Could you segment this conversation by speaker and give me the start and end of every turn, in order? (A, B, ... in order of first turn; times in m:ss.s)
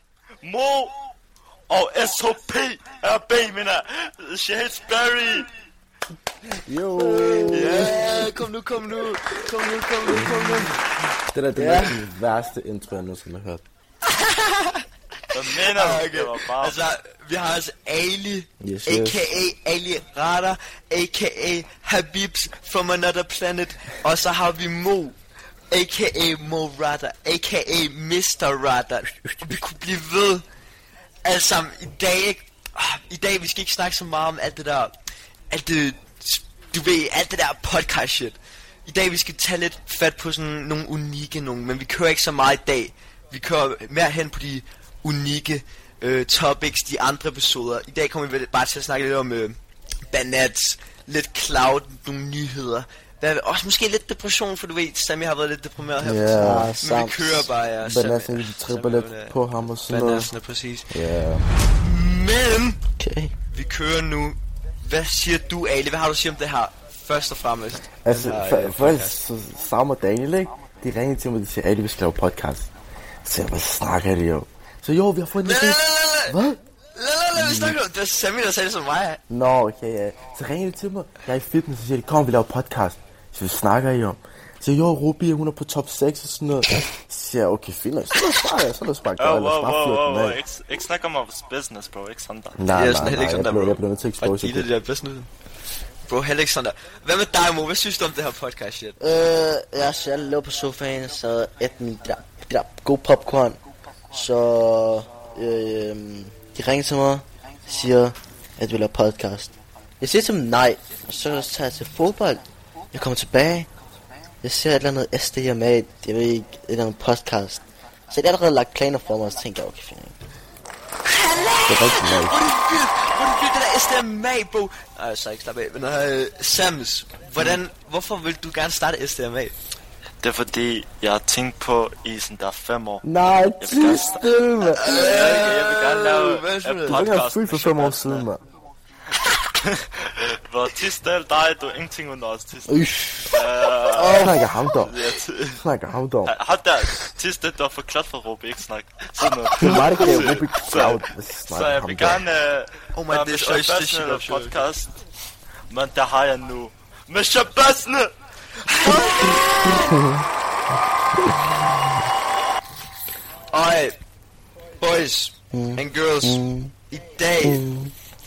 0:00.4-0:00.9 A
0:01.7-0:05.5 A
0:06.6-0:08.3 B
0:07.1-0:07.8 C
0:07.5-0:10.8 D
0:07.5-0:08.1 A
0:10.1-0:13.6 B
0:11.6-0:12.0 C
0:14.0-0:14.8 D
0:15.3-0:16.8 A
0:15.4-0:25.2 D
0:18.6-0:19.2 B
0:25.7-0:30.4 D
0:31.2-0:35.0 D
0:35.5-0:49.6 D
0:50.1-0:59.4 D
0:56.0-0:56.8 B
0:56.3-0:57.5 C
0:57.8-1:00.3 B
0:59.9-1:00.9 D
1:00.9-1:01.5 B
1:01.8-1:02.8 D
1:03.0-1:03.3 C
1:03.5-1:09.2 D
1:08.0-1:12.7 B
1:13.2-1:16.6 B
1:15.4-1:16.4 D
1:16.9-1:19.2 D
1:17.3-1:17.8 B
1:19.3-1:30.4 B
1:29.2-1:32.6 A
1:32.6-1:34.7 B
1:32.7-1:35.3 D
1:36.1-1:39.0 D
1:39.0-1:43.6 C
1:44.1-1:53.7 C
1:54.4-2:00.2 C
2:01.0-2:09.5 D
2:01.6-2:02.4 B
2:10.2-2:13.0 A
2:13.0-2:14.8 C
2:13.5-2:14.9 B
2:13.6-2:14.3 A
2:14.7-2:17.0 D
2:14.8-2:18.3 A
2:16.9-2:18.4 B
2:19.6-2:25.6 A
2:22.7-2:24.5 C
2:24.1-2:26.3 B
2:26.2-2:35.0 A
2:29.6-2:30.3 C
2:29.6-2:32.2 B
2:32.9-2:34.5 D
2:35.7-2:38.1 A
2:38.6-2:40.0 D
2:39.7-2:40.2 B
2:41.2-2:41.6 B
2:43.5-2:44.0 D
2:44.8-2:47.6 D
2:45.5-2:46.7 C
2:47.4-2:47.9 C